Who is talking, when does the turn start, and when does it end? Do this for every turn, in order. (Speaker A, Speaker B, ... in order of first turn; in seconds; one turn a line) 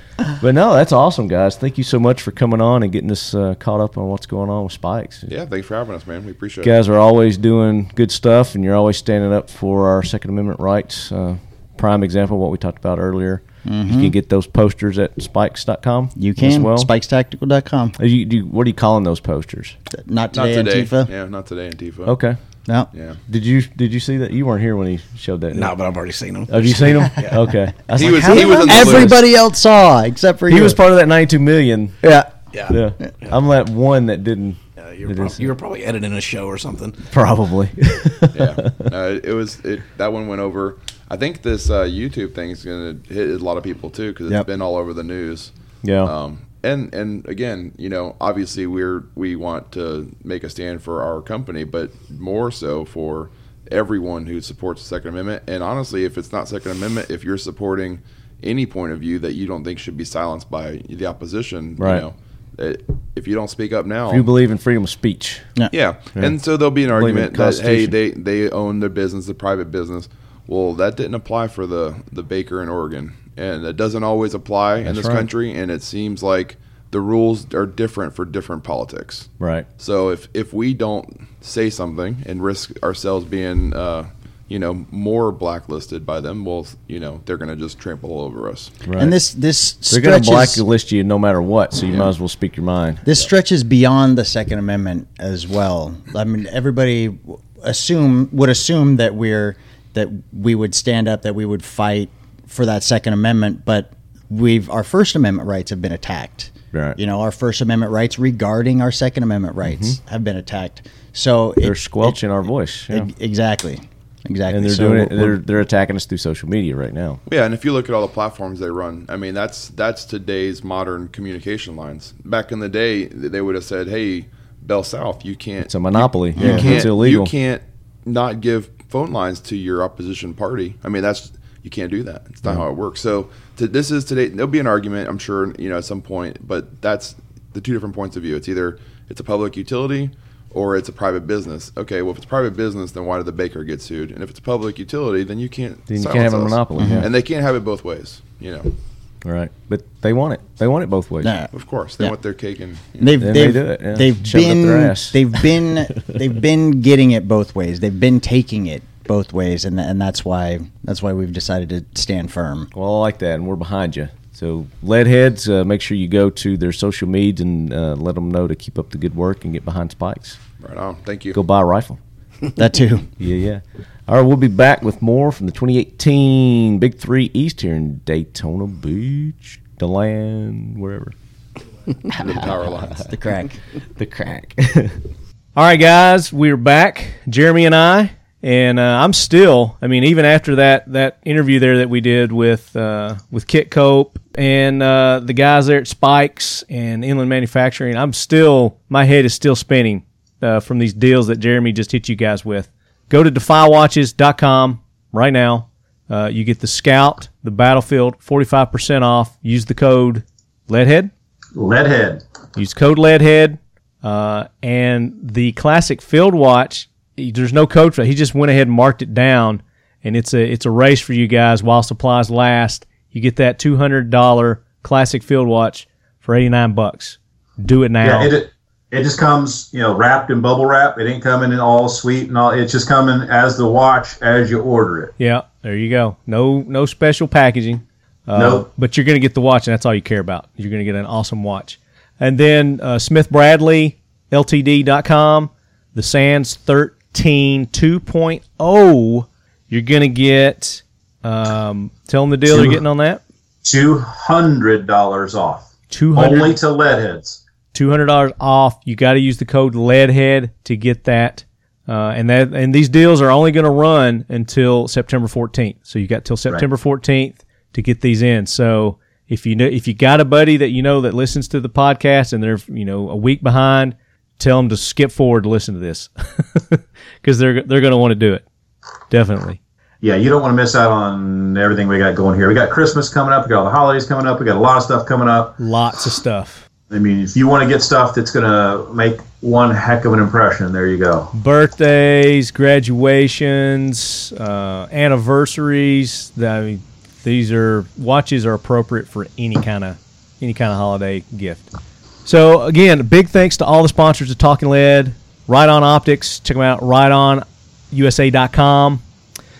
Speaker A: 0.4-5.3
Speaker B: 5.3-6.8
Speaker A: 6.6-16.9
Speaker C: 13.6-14.1
Speaker C: 16.1-18.0
Speaker A: 18.0-19.8
Speaker C: 19.9-21.1
Speaker B: 20.3-22.2
Speaker A: 22.0-22.4
Speaker B: 22.9-23.2
Speaker A: 23.3-25.7
Speaker D: 25.5-27.4
Speaker A: 26.5-29.2
Speaker B: 27.9-29.2
Speaker C: 28.0-30.8
Speaker A: 30.5-32.0
Speaker C: 32.0-32.3
Speaker D: 32.5-33.3
Speaker A: 32.7-35.5
Speaker D: 34.8-37.0
Speaker A: 37.1-38.9
Speaker B: 38.3-64.3
Speaker A: 45.8-46.1
Speaker A: 61.8-62.0
Speaker A: 64.1-65.5
Speaker B: 65.7-88.8
Speaker A: 66.9-67.9
Speaker A: 74.8-75.3
Speaker A: 79.4-79.7
Speaker A: 88.8-89.2
Speaker C: 89.0-90.6
Speaker A: 89.9-93.0
Speaker C: 93.0-112.2
Speaker A: 106.7-107.0
Speaker A: 109.6-110.0
Speaker A: 111.6-113.1
Speaker C: 112.9-115.4
Speaker A: 114.5-117.2
Speaker B: 117.2-148.7
Speaker A: 125.6-127.3
Speaker C: 126.4-126.9
Speaker A: 145.9-147.1
Speaker C: 146.8-147.1
Speaker A: 149.2-151.3
Speaker C: 151.2-152.1
Speaker B: 151.5-153.2
Speaker C: 153.0-162.7
Speaker A: 153.2-155.4
Speaker A: 162.7-170.4
Speaker B: 170.6-171.4
Speaker A: 171.3-172.0
Speaker C: 172.6-173.1
Speaker A: 173.2-181.1
Speaker B: 182.2-183.0
Speaker C: 183.1-183.6
Speaker A: 184.0-185.0
Speaker E: 185.5-211.1
Speaker F: 211.5-212.2
Speaker E: 212.6-228.3
Speaker F: 228.0-235.1
Speaker E: 235.2-253.2
Speaker F: 238.3-238.7
Speaker F: 252.5-252.8
Speaker F: 253.6-257.4
Speaker E: 255.9-256.6
Speaker E: 257.7-278.4
Speaker E: 279.1-279.6
Speaker F: 280.0-285.6
Speaker E: 285.6-286.6
Speaker F: 286.9-291.3
Speaker E: 291.3-301.7
Speaker E: 302.2-309.0